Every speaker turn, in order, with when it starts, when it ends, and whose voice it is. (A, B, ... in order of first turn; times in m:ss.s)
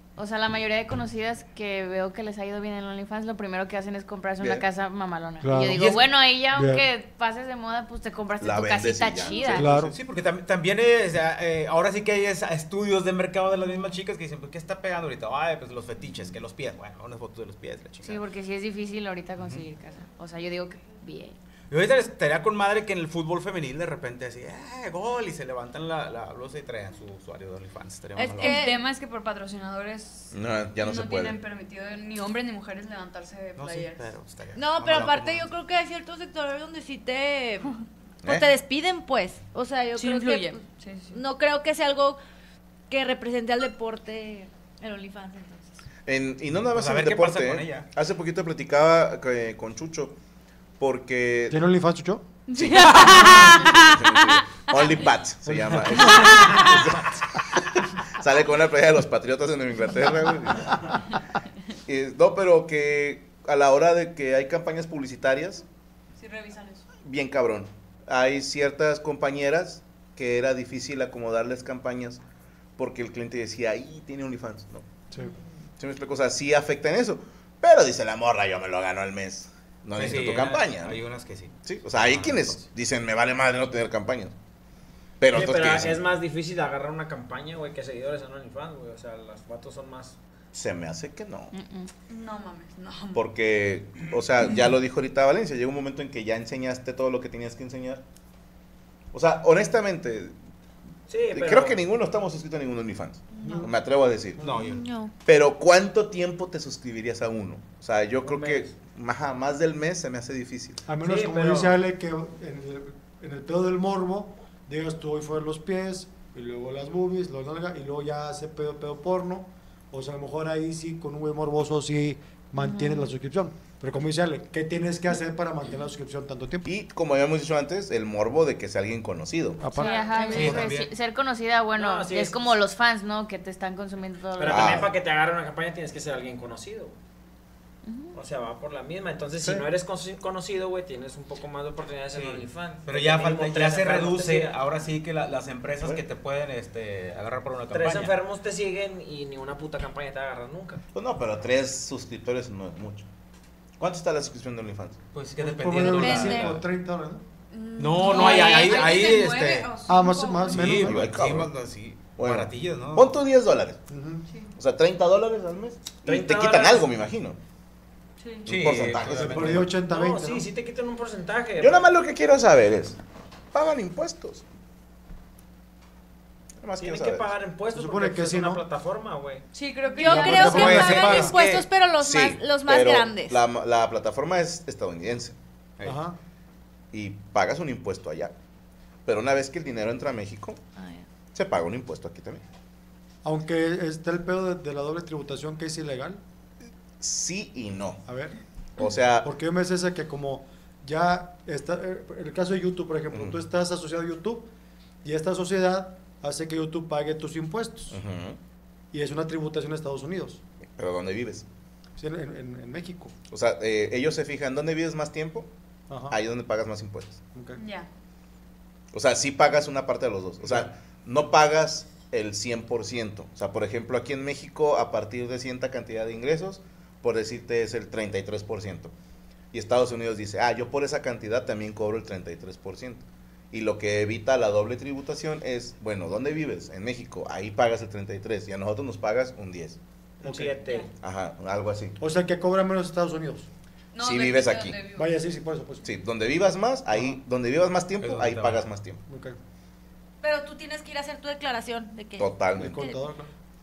0:00.2-0:09.7 A
0:05.4-0:05.9 B
0:05.7-0:06.0 C
0:06.5-0:06.8 B
0:08.4-0:09.7 D
0:09.5-0:09.9 B
0:09.7-0:18.2 C
0:18.0-0:21.4 A
0:21.7-0:28.6 C
0:28.2-0:28.8 E
0:28.4-0:34.1 F
0:30.3-0:31.4 D
0:33.6-0:35.5 C
0:34.5-0:40.6 E
0:38.2-0:38.5 D
0:40.0-0:41.2 F
0:41.1-0:42.2 E
0:42.9-0:45.8 E
0:46.0-0:50.2 D
0:46.6-0:47.9 C
0:50.8-0:51.6 D
0:51.5-0:52.2 B
0:52.5-0:54.0 F
0:52.5-0:57.2 D
0:53.1-0:53.5 E
0:55.4-0:56.7 B
0:56.4-0:56.8 F
0:58.1-1:01.0 D
1:01.9-1:05.6 D
1:06.2-1:06.8 F
1:07.0-1:12.2 D
1:12.8-1:14.9 D
1:15.8-1:21.0 D
1:20.0-1:22.6 C
1:21.6-1:24.3 D
1:25.2-1:26.0 D
1:25.3-1:30.2 G
1:30.5-1:31.5 D
1:31.5-1:31.9 A
1:32.1-1:33.2 F
1:33.1-1:38.0 D
1:39.1-1:40.3 D
1:41.1-1:41.8 G
1:41.3-1:44.4 D
1:43.4-1:43.7 F
1:44.4-1:44.8 C
1:44.6-1:45.1 E
1:45.2-1:50.8 D
1:48.2-1:48.7 G
1:50.9-2:06.7 B
1:51.0-1:51.8 G
2:02.6-2:03.1 A
2:06.6-2:09.6 D
2:09.6-2:10.5 B
2:09.7-2:14.8 A
2:09.8-2:10.5 E
2:10.3-2:10.9 C
2:11.7-2:12.6 G
2:14.4-2:17.0 G
2:14.4-2:14.9 D
2:17.8-2:18.1 A
2:18.1-2:24.6 G
2:22.1-2:28.2 C
2:27.7-2:30.8 G
2:30.9-2:33.0 D
2:33.8-2:35.0 D
2:35.1-2:36.6 C
2:35.4-2:37.2 B
2:35.9-2:36.5 E
2:37.5-2:40.7 F
2:37.8-2:39.7 C
2:38.0-2:38.9 E
2:39.9-2:41.4 B
2:40.5-2:43.1 C
2:40.6-2:41.5 D
2:42.2-2:43.8 D
2:43.9-2:44.2 B
2:44.6-2:47.4 D
2:46.0-2:46.8 G
2:48.2-2:48.5 F
2:48.4-2:49.7 D
2:48.5-2:49.7 C
2:49.1-2:50.5 B
2:49.8-2:51.9 G
2:51.6-2:53.0 D
2:53.5-2:54.4 D
2:56.6-2:57.3 D
2:56.8-2:59.4 G
2:57.7-2:58.6 B
2:59.5-3:00.8 F
3:00.0-3:03.4 E
3:00.0-3:01.4 B
3:00.4-3:01.7 C
3:02.0-3:05.4 D
3:05.8-3:06.2 B
3:06.9-3:08.3 D
3:09.0-3:10.6 D
3:10.8-3:11.0 E
3:11.3-3:12.4 D
3:13.2-3:16.2 B
3:17.0-3:18.0 D
3:18.1-3:18.4 B
3:18.8-3:19.3 D
3:19.2-3:24.5 B
3:23.1-3:23.4 D
3:25.0-3:28.0 B
3:27.9-3:28.4 D
3:28.9-3:30.4 B
3:30.8-3:31.4 D
3:32.0-3:33.1 B
3:33.3-3:35.5 D
3:35.9-3:36.2 B
3:36.1-3:37.2 D
3:37.6-3:37.9 F
3:38.9-3:48.9 D
3:49.5-3:59.8 D
4:00.2-4:00.9 G
4:00.2-4:00.6 B
4:01.0-4:02.0 D
4:02.0-4:03.5 B
4:03.9-4:05.1 F
4:04.0-4:04.8 D
4:05.0-4:05.9 B
4:05.8-4:09.0 D
4:08.0-4:08.6 C
4:09.1-4:09.4 B
4:10.2-4:13.0 E
4:12.2-4:12.9 D
4:12.6-4:13.3 B